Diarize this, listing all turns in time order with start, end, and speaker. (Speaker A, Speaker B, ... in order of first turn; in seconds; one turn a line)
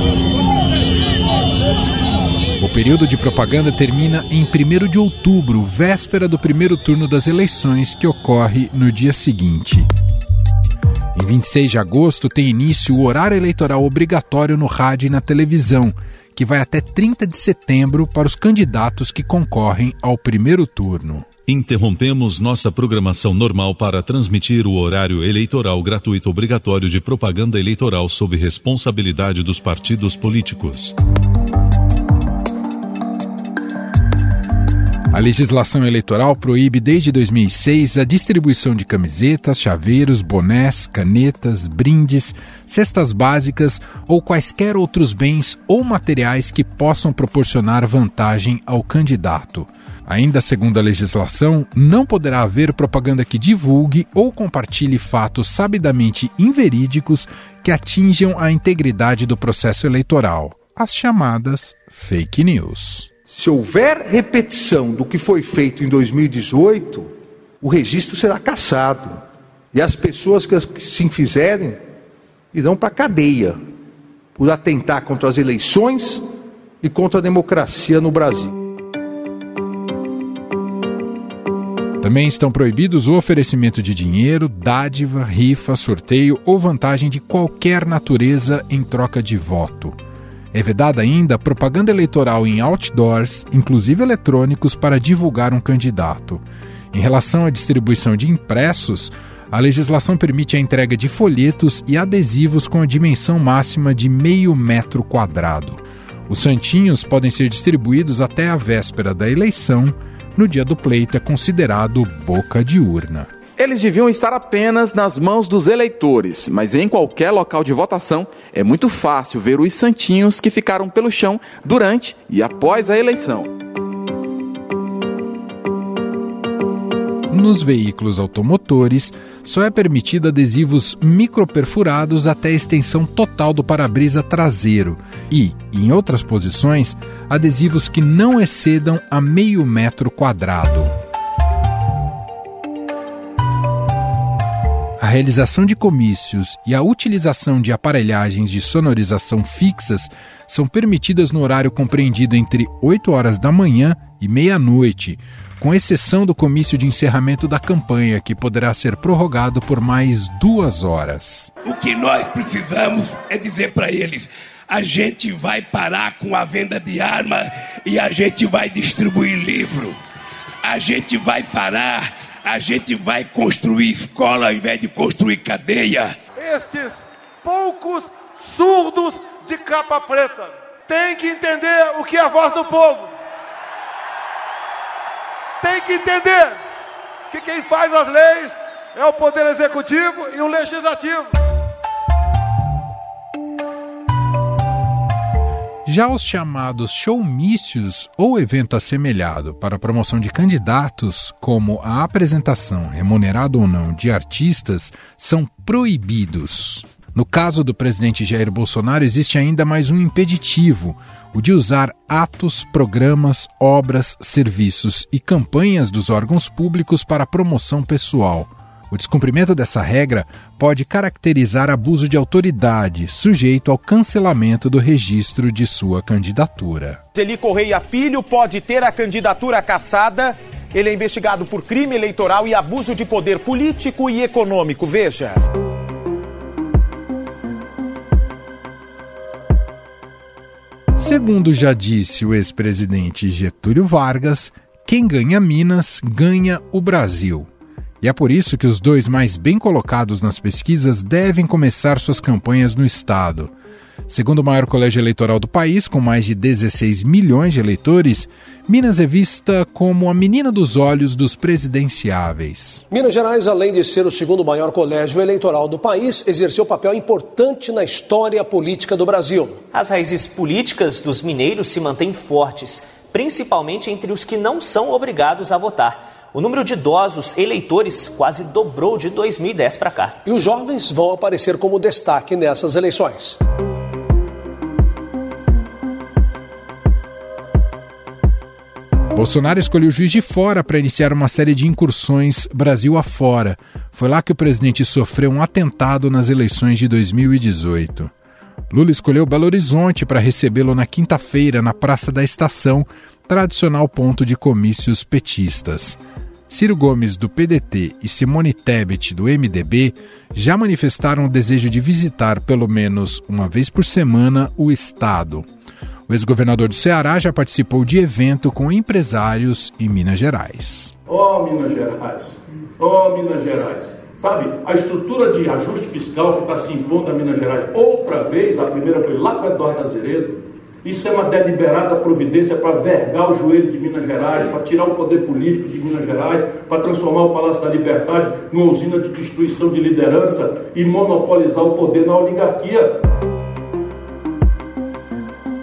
Speaker A: 2.6-9.9
Speaker A: 11.2-21.3
Speaker B: 21.5-30.9
Speaker A: 35.1-63.1
Speaker C: 63.3-67.1
Speaker C: 67.6-69.2
Speaker C: 69.7-71.8
Speaker C: 72.5-73.6
Speaker C: 74.4-76.2
Speaker C: 76.8-78.5
Speaker A: 82.0-90.0
Speaker A: 90.5-96.4
Speaker A: 96.9-113.3
Speaker D: 113.6-123.5
Speaker A: 127.3-140.9
Speaker A: 145.0-161.5
Speaker E: 161.6-170.0
Speaker E: 170.6-176.2
Speaker F: 176.4-183.1
Speaker F: 185.6-186.6
Speaker F: 187.3-191.3
Speaker A: 195.9-227.0
Speaker G: 227.2-235.4
Speaker A: 241.0-247.5
Speaker A: 248.0-253.5
Speaker A: 254.1-262.8
Speaker H: 262.9-269.6
Speaker I: 269.7-280.2
Speaker H: 280.2-283.4
Speaker A: 289.1-298.1
Speaker A: 298.7-315.5
Speaker A: 316.1-320.9
Speaker J: 321.1-342.9